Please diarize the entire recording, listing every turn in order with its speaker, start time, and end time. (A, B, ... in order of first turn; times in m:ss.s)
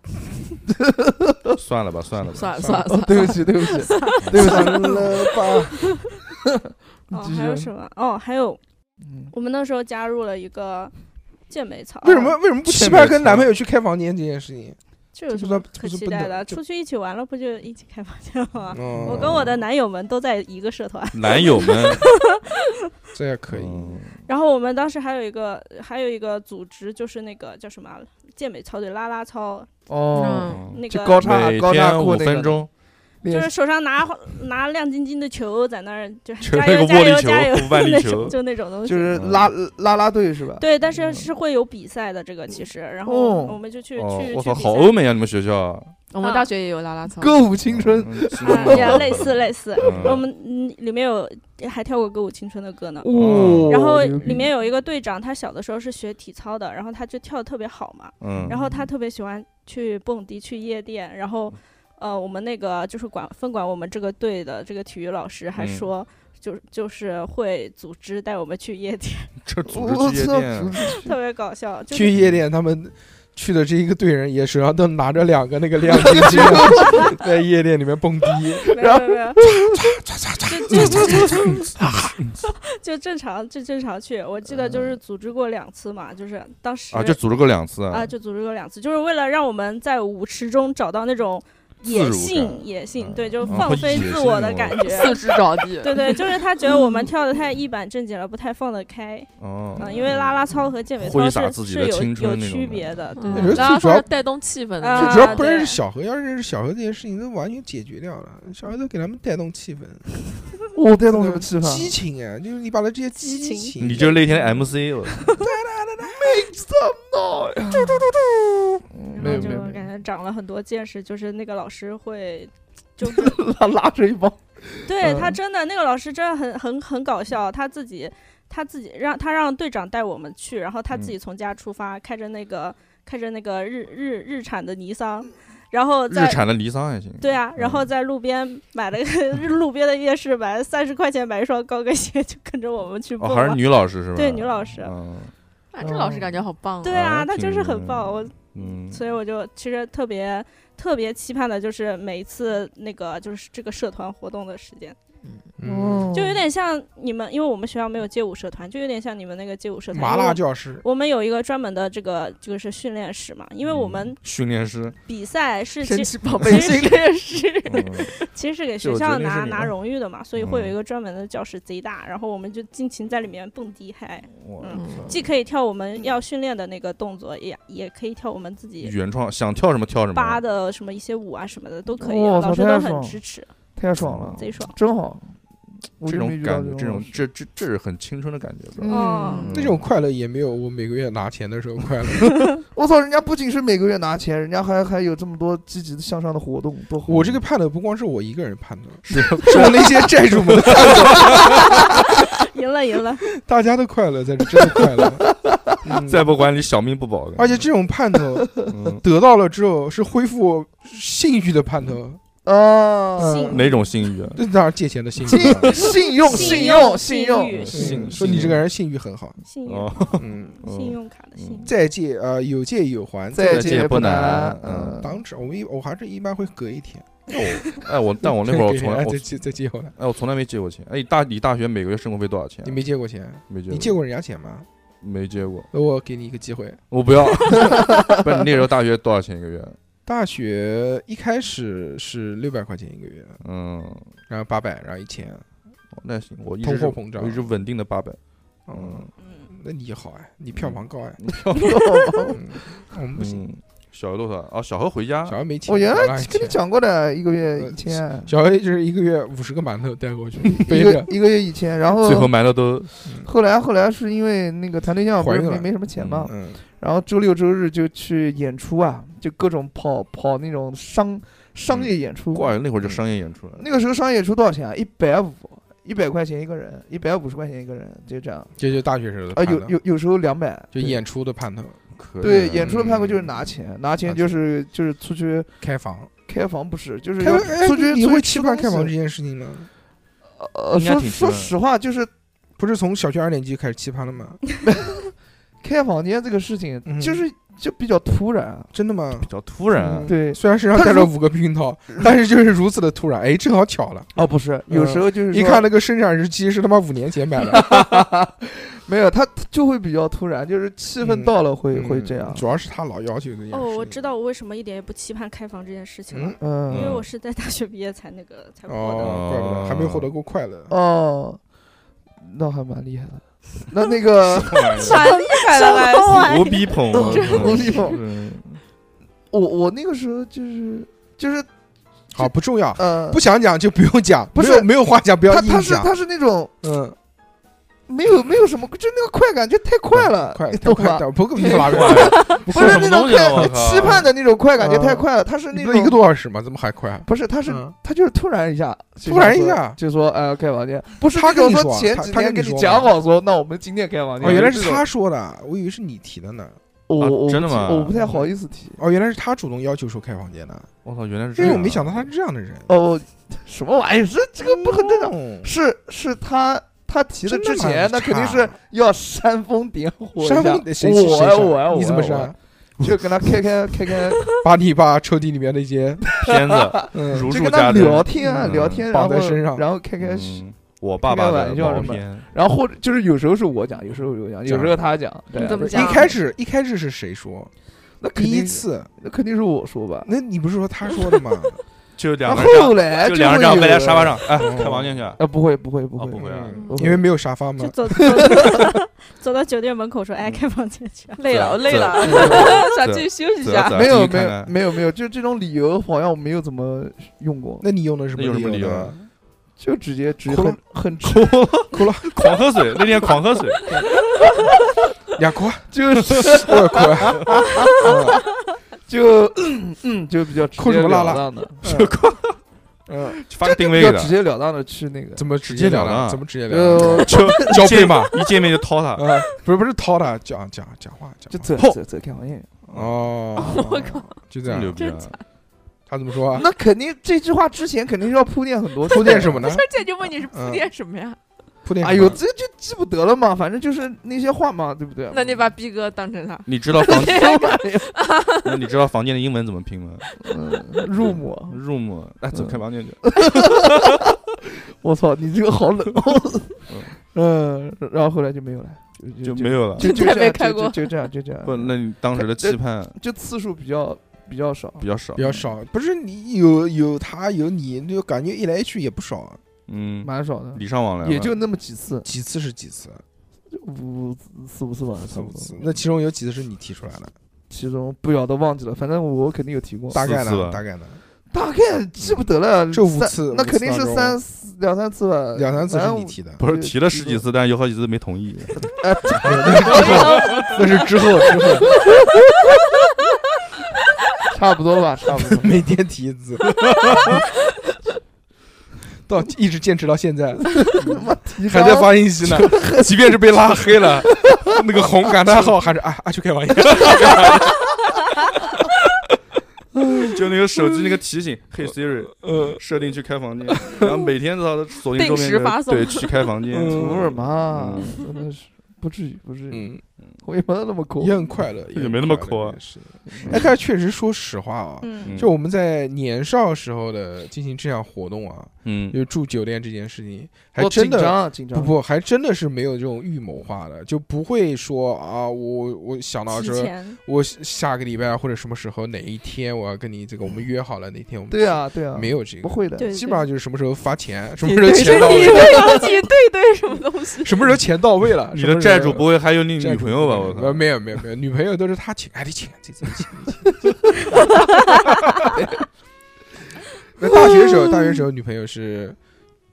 0:00.7-0:01.5 A
0:01.5-0:02.5 B
0:02.2-0:04.2 C
0:02.6-0:02.9 D
0:02.8-0:05.1 A
0:04.2-0:05.2 E
0:04.2-0:04.6 B
0:04.3-0:05.8 D
0:07.1-0:07.7 A
0:07.1-0:08.6 E
0:09.0-0:09.3 A
0:09.3-0:10.9 E
0:11.5-0:12.4 E
0:12.0-0:14.8 D
0:12.6-0:13.5 B
0:15.1-0:22.8 E
0:15.3-0:16.6 D
0:18.7-0:19.5 D
0:19.0-0:19.5 B
0:21.1-0:22.1 B
0:23.1-0:24.0 D
0:23.5-0:24.2 B
0:24.2-0:29.7 E
0:29.9-0:32.6 A
0:30.1-0:30.7 C
0:30.4-0:32.7 B
0:30.7-0:31.2 E
0:33.2-0:33.5 A
0:33.2-0:39.1 E
0:36.4-0:38.4 B
0:38.8-0:41.3 A
0:39.1-0:39.5 B
0:40.6-0:44.9 E
0:43.0-0:43.6 A
0:44.0-0:45.9 B
0:46.1-0:47.4 C
0:46.2-0:46.5 E
0:47.2-0:49.2 A
0:47.7-0:50.2 B
0:48.4-1:09.3 E
0:53.0-0:54.5 A
0:53.2-0:53.7 B
0:53.2-0:53.7 D
0:58.2-0:58.6 B
0:58.4-0:58.9 A
1:05.6-1:05.9 B
1:09.4-1:10.8 B
1:09.7-1:11.2 A
1:10.9-1:12.1 E
1:11.9-1:18.7 D
1:12.1-1:12.4 B
1:15.9-1:17.1 A
1:18.6-1:20.0 A
1:18.7-1:19.4 E
1:19.4-1:22.2 D
1:20.5-1:21.7 E
1:20.9-1:21.4 A
1:22.5-1:27.2 E
1:26.9-1:28.1 B
1:27.9-1:43.7 E
1:31.8-1:34.9 B
1:34.8-1:36.9 C
1:39.4-1:43.6 B
1:43.2-1:45.5 C
1:43.3-1:44.1 D
1:44.8-1:45.8 E
1:44.9-1:50.1 D
1:50.7-1:51.9 A
1:51.1-1:54.3 D
1:53.2-1:53.7 E
1:53.8-1:55.3 B
1:55.1-1:55.4 E
1:55.4-1:56.4 D
1:56.0-1:59.9 A
1:59.1-2:03.4 E
1:59.2-1:59.6 D
2:03.0-2:05.4 A
2:04.8-2:16.4 E
2:16.1-2:17.9 B
2:17.2-2:23.6 E
2:23.2-2:25.3 B
2:24.1-2:24.9 E
2:25.7-2:27.0 C
2:25.8-2:26.3 A
2:26.8-2:35.0 E
2:26.8-2:29.0 B
2:35.6-2:36.1 D
2:35.6-2:36.4 A
2:36.1-2:44.2 E
2:39.9-2:40.8 D
2:43.6-2:45.0 B
2:45.0-2:47.0 E
2:45.8-2:48.0 C
2:47.7-2:58.9 E
2:47.7-2:48.1 B
2:48.8-2:49.7 B
2:50.4-2:50.7 B
2:54.3-2:55.1 B
2:54.7-2:55.2 C
2:58.8-3:00.4 B
3:00.1-3:03.5 E
3:02.0-3:03.2 A
3:03.8-3:05.3 A
3:04.0-3:04.5 B
3:04.4-3:04.8 E
3:06.0-3:07.2 A
3:06.0-3:09.8 B
3:08.8-3:09.4 A
3:08.9-3:09.5 C
3:08.9-3:09.5 E
3:09.5-3:12.5 D
3:12.7-3:17.4 A
3:17.1-3:22.0 D
3:19.0-3:21.6 B
3:21.3-3:23.3 E
3:23.3-3:25.3 D
3:25.3-3:25.8 A
3:25.8-3:26.4 D
3:26.0-3:27.6 B
3:27.4-3:32.2 D
3:28.7-3:29.0 B
3:32.4-3:33.5 A
3:33.2-3:33.6 D
3:33.2-3:33.8 E
3:33.4-3:34.4 B
3:34.3-3:35.8 D
3:35.2-3:37.9 A
3:35.8-3:38.2 E
3:37.5-3:38.6 B
3:37.7-3:39.4 D
3:39.4-3:41.7 E
3:39.6-3:41.7 B
3:40.2-3:40.6 D
3:41.6-3:44.0 D
3:43.3-3:45.1 A
3:43.5-3:45.0 B
3:45.0-3:47.2 D
3:47.3-3:49.3 B
3:48.2-3:49.9 D
3:50.0-3:52.8 B
3:52.6-3:54.6 D
3:53.5-3:54.0 B
3:55.0-3:55.7 B
3:55.7-3:56.8 D
3:56.9-3:59.8 B
4:00.0-4:03.4 D
4:03.4-4:04.1 B
4:04.3-4:05.4 D
4:05.9-4:08.2 B
4:06.6-4:07.5 D
4:08.7-4:11.2 D
4:08.7-4:09.1 B
4:09.2-4:09.5 E
4:10.6-4:11.8 B
4:11.5-4:12.4 A
4:12.3-4:13.4 D
4:13.2-4:15.4 B
4:15.3-4:16.6 D
4:15.6-4:18.3 A
4:17.6-4:21.1 D
4:20.5-4:22.3 A
4:22.0-4:22.9 B
4:23.2-4:32.6 A
4:25.2-4:25.7 D
4:26.0-4:26.3 B
4:26.2-4:26.6 D
4:31.7-4:33.6 B
4:33.6-4:38.6 A
4:38.6-4:39.7 D
4:39.3-4:41.0 A
4:40.7-4:41.8 D
4:41.9-4:43.3 B
4:42.2-4:45.5 A
4:45.6-4:46.1 D
4:46.2-4:48.9 A
4:47.2-4:49.7 D
4:50.4-4:52.1 A
4:50.7-4:51.5 B
4:52.6-4:54.4 D
4:54.6-4:58.7 A
4:56.8-4:57.2 D
4:58.7-5:04.1 D
4:59.2-5:00.1 B
5:00.0-5:01.1 A
5:04.1-5:05.6 A
5:04.7-5:08.0 D
5:07.4-5:12.4 A
5:11.0-5:14.1 D
5:13.5-5:19.2 E
5:16.1-5:16.4 D
5:16.4-5:16.9 A
5:16.7-5:17.1 B
5:18.7-5:20.7 D
5:19.0-5:20.1 B
5:20.7-5:21.4 A
5:22.2-5:24.9 A
5:24.3-5:25.1 B
5:24.7-5:26.5 C
5:24.9-5:27.2 E
5:26.1-5:28.6 B
5:26.9-5:28.0 A
5:27.0-5:27.9 C
5:29.3-5:31.5 A
5:32.1-5:35.9 D
5:32.2-5:33.2 A
5:34.3-5:34.7 A
5:35.3-5:36.5 A
5:36.6-5:37.0 D
5:37.9-5:46.0 A
5:39.9-5:42.8 D
5:41.5-5:44.0 B
5:43.3-5:44.0 D
5:44.6-5:47.7 D
5:47.0-5:54.8 A
5:49.0-5:49.8 D
5:51.1-5:52.9 D
5:54.2-5:56.6 D
5:54.2-5:54.7 B
5:56.9-5:58.8 A
5:57.0-5:57.9 B
5:57.9-6:00.7 D
6:00.8-6:02.0 B
6:01.4-6:02.7 D
6:02.7-6:14.3 A
6:04.4-6:05.5 D
6:07.2-6:08.5 D
6:10.2-6:12.4 D
6:14.3-6:16.1 D
6:16.2-6:18.8 B
6:16.2-6:20.4 A
6:16.9-6:17.3 D
6:18.2-6:19.6 D
6:20.0-6:22.2 B
6:21.0-6:26.1 A
6:24.5-6:24.7 D
6:25.3-6:26.1 C
6:25.6-6:27.5 D
6:28.0-6:30.1 A
6:28.1-6:28.9 D
6:30.0-6:31.6 D
6:32.0-6:35.2 B
6:32.2-6:34.2 A
6:34.3-6:35.0 D
6:35.2-6:37.1 A
6:36.0-6:36.6 B
6:36.2-6:38.7 D
6:36.5-6:36.8 C
6:37.6-6:41.2 E
6:38.1-6:38.6 A
6:41.2-6:43.8 C
6:41.3-6:44.5 B
6:42.0-6:42.6 A
6:43.7-6:47.6 A
6:47.6-6:49.1 D
6:48.1-6:48.9 B
6:49.6-6:51.3 A
6:50.3-6:50.6 D
6:51.0-6:53.7 B
6:51.7-6:52.1 D
6:55.2-6:58.2 D
6:55.7-6:58.2 A
6:58.8-7:01.6 A
7:00.6-7:01.9 D
7:01.6-7:02.4 B
7:02.9-7:03.2 D
7:03.3-7:04.1 B
7:03.4-7:05.3 A
7:05.2-7:08.1 D
7:05.4-7:06.2 B
7:06.5-7:07.7 A
7:06.8-7:09.1 B
7:08.9-7:11.8 D
7:11.3-7:12.5 A
7:12.7-7:14.8 D
7:12.7-7:13.0 B
7:13.4-7:14.1 A
7:13.4-7:14.2 C
7:14.5-7:15.2 B
7:14.8-7:15.2 C
7:15.9-7:16.4 D
7:16.3-7:19.5 A
7:18.9-7:19.7 D
7:18.9-7:21.2 C
7:20.3-7:20.7 D
7:21.6-7:22.2 D
7:21.8-7:25.5 A
7:25.1-7:28.5 C
7:26.5-7:27.3 B
7:26.8-7:27.9 A
7:28.4-7:30.1 B
7:30.2-7:31.6 A
7:31.0-7:33.6 B
7:32.3-7:34.1 A
7:34.8-7:45.5 A
7:36.7-7:36.9 B
7:39.2-7:39.9 B
7:39.8-7:40.9 C
7:41.4-7:42.9 B
7:44.8-7:45.2 B
7:45.2-7:49.4 D
7:49.7-7:51.4 B
7:50.0-7:52.1 A
7:52.0-7:53.0 D
7:53.5-7:55.6 A
7:55.1-7:57.1 D
7:57.5-8:00.0 A
7:59.9-8:01.0 D
7:59.9-8:00.6 B
8:01.3-8:07.2 A
8:02.7-8:04.2 D
8:05.3-8:06.4 D
8:06.4-8:08.6 B
8:08.6-8:10.6 A
8:09.2-8:11.8 D
8:10.0-8:10.4 B
8:14.3-8:15.6 A
8:15.2-8:17.2 D
8:16.6-8:17.0 B
8:19.1-8:20.6 D
8:20.6-8:22.9 A
8:21.4-8:27.5 D
8:26.8-8:27.1 B
8:30.1-8:37.9 B
8:32.1-8:32.6 D
8:34.9-8:36.3 C
8:36.5-8:37.1 D
8:36.7-8:41.2 A
8:39.5-8:39.8 D
8:41.0-9:05.8 D
8:41.7-8:42.6 B
8:43.1-8:43.3 A
8:44.8-8:45.2 E
8:45.0-8:45.3 B
8:48.6-8:49.0 B
8:50.6-8:51.7 A
8:56.3-8:57.0 E
9:01.3-9:02.9 A
9:02.8-9:03.3 E
9:04.4-9:07.4 C
9:04.4-9:05.9 A
9:07.2-9:13.5 D
9:08.3-9:10.7 B
9:15.3-9:15.6 A
9:17.0-9:19.0 D